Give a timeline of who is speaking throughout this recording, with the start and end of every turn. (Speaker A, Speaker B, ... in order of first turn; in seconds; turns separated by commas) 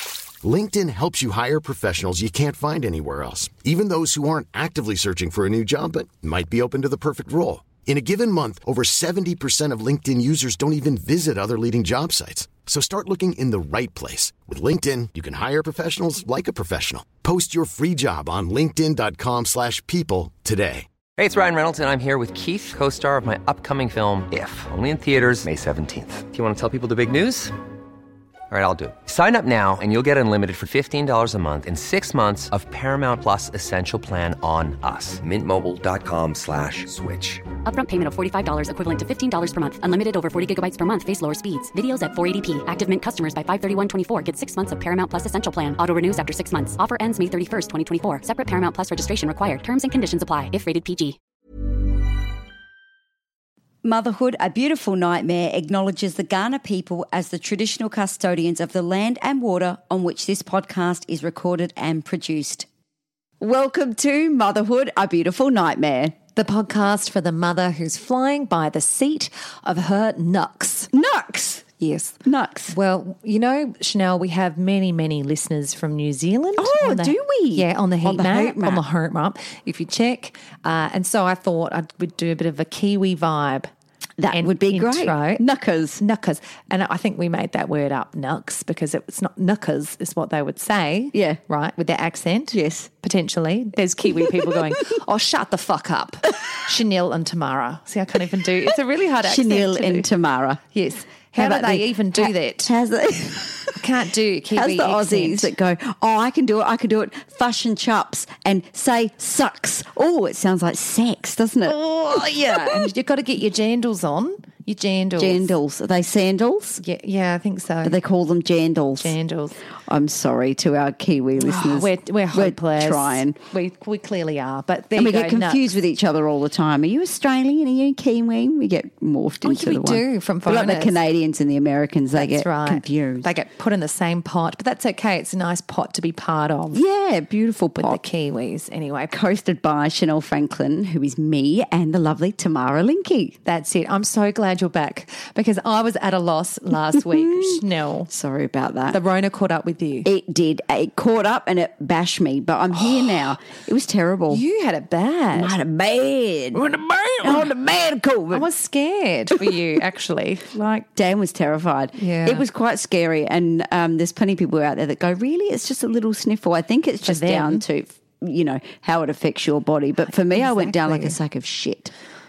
Speaker A: 0.4-20.9, Speaker B: 21.2-27.5, Speaker B: 28.5-37.4, Speaker C: 37.6-51.2, Speaker D: 53.8-62.7, Speaker D: 63.4-66.2, Speaker E: 66.4-70.9, Speaker D: 70.9-71.7, Speaker E: 71.8-72.2, Speaker D: 72.2-72.8, Speaker E: 72.7-83.7, Speaker D: 76.6-78.8, Speaker D: 84.2-86.0, Speaker E: 84.3-85.4, Speaker E: 86.0-100.1, Speaker D: 91.1-91.4, Speaker D: 92.5-92.9, Speaker D: 94.2-94.5, Speaker D: 99.2-100.6, Speaker E: 100.7-102.7, Speaker D: 101.3-103.8, Speaker E: 103.8-105.5, Speaker D: 104.5-112.9, Speaker E: 111.7-115.5, Speaker D: 115.2-116.8, Speaker E: 116.8-118.0, Speaker D: 117.8-119.2, Speaker E: 119.0-119.6, Speaker D: 119.9-123.4, Speaker E: 121.4-125.7, Speaker D: 124.9-133.3, Speaker E: 129.4-131.0, Speaker E: 132.2-136.8, Speaker D: 136.7-138.0, Speaker E: 137.8-139.1, Speaker D: 139.1-143.4, Speaker E: 143.5-148.1, Speaker D: 146.9-149.0, Speaker E: 148.9-150.1, Speaker D: 150.0-154.4, Speaker E: 154.3-155.6, Speaker D: 155.3-156.7, Speaker E: 156.6-157.5, Speaker D: 157.2-158.5, Speaker E: 158.3-160.9, Speaker D: 160.9-171.9, Speaker E: 162.0-162.4, Speaker E: 167.0-167.6, Speaker E: 170.0-171.2